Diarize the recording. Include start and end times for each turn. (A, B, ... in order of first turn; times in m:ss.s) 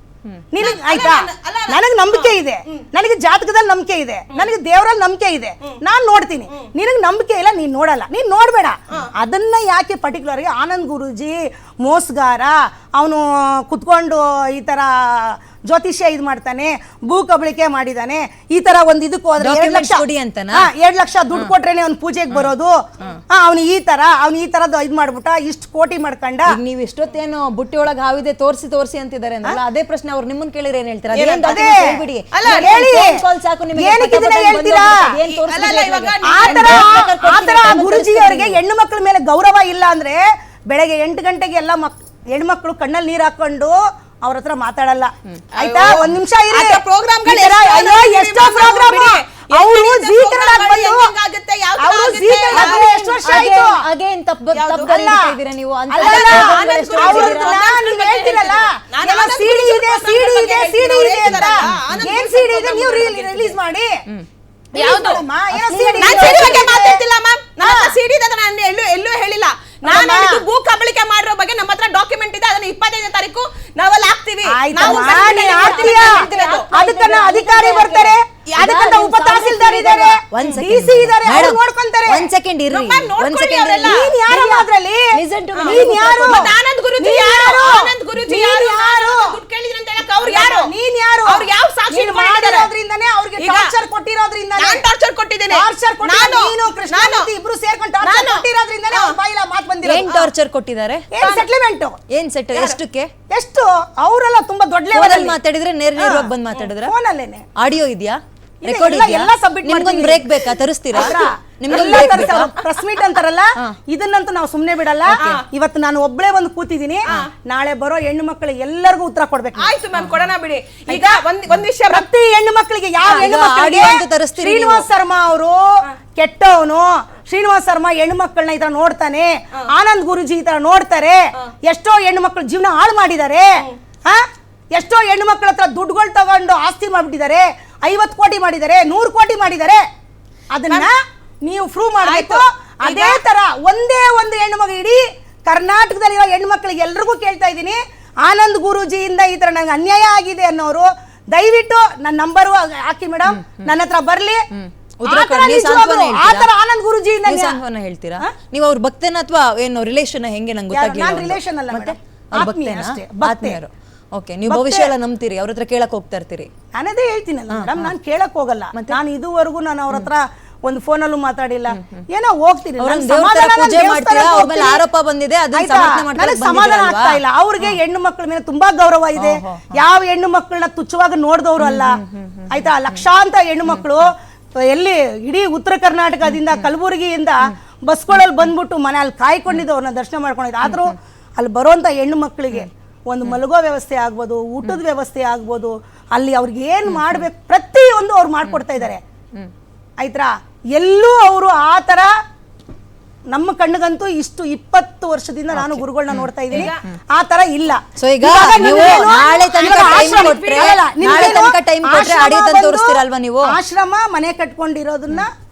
0:00.5-0:26.6 A
0:00.6-0:02.8 B
0:19.4-0:20.7 C
0:26.5-0:38.6 C
0:31.1-0:31.7 B
0:31.4-0:31.8 A
0:32.3-0:32.7 B
0:32.5-0:33.2 A
0:33.7-0:35.1 A
0:35.1-0:36.9 B
0:36.2-0:51.1 A
0:45.5-0:53.5 B
0:51.8-0:53.8 A
0:52.5-0:57.6 C
0:54.5-0:54.9 B
0:54.8-0:55.3 A
0:55.9-1:03.6 B
0:55.9-1:04.0 A
1:01.2-1:02.0 C
1:04.7-1:07.0 A
1:04.7-1:05.2 B
1:05.5-1:06.6 C
1:06.0-1:16.7 B
1:07.6-1:07.9 A
1:09.8-1:10.4 A
1:14.5-1:16.2 A
1:14.8-1:24.0 C
1:16.7-1:22.3 A
1:18.5-1:18.8 B
1:20.4-1:20.6 B
1:22.7-1:24.7 B
1:23.8-1:29.4 A
1:25.1-1:26.5 C
1:25.5-1:30.7 B
1:30.2-1:34.8 A
1:31.2-1:32.7 B
1:33.4-1:33.7 B
1:34.6-1:37.3 B
1:35.5-1:40.1 A
1:38.0-1:39.2 B
1:39.8-1:41.1 C
1:40.0-1:40.3 B
1:41.1-1:42.0 A
1:41.2-1:41.5 B
1:42.1-1:43.1 C
1:42.5-1:42.8 B
1:43.3-1:45.4 A
1:44.9-1:46.9 C
1:46.1-1:46.7 B
1:46.8-1:47.4 A
1:47.6-1:52.5 C
1:48.6-1:50.3 A
1:50.9-1:59.7 A
1:50.9-1:52.8 B
1:55.1-1:55.4 C
1:55.2-1:55.4 B
1:59.6-2:02.1 B
1:59.9-2:00.3 C
2:00.9-2:01.2 A
2:01.9-2:14.2 A
2:03.0-2:04.8 C
2:03.4-2:03.9 B
2:14.7-2:19.8 A
2:20.5-2:34.4 A
2:22.0-2:23.2 B
2:33.2-2:33.7 C
2:34.5-2:36.5 C
2:35.1-2:37.6 A
2:37.2-2:46.5 C
2:40.7-2:43.6 A
2:44.5-2:44.9 A
2:46.7-2:54.8 A
2:47.5-2:47.9 C
2:51.7-2:52.0 C
2:52.8-2:57.8 C
2:55.5-3:04.1 A
2:59.2-2:59.8 C
3:01.6-3:03.0 C
3:03.6-3:04.1 C
3:04.6-3:19.0 A
3:06.2-3:06.7 C
3:08.1-3:08.5 C
3:10.6-3:10.9 C
3:16.8-3:17.3 C
3:18.5-3:19.5 C
3:20.0-3:22.1 A
3:23.3-3:35.3 A
3:25.5-3:26.7 C
3:26.5-3:26.8 B
3:28.0-3:33.5 C
3:28.6-3:31.4 B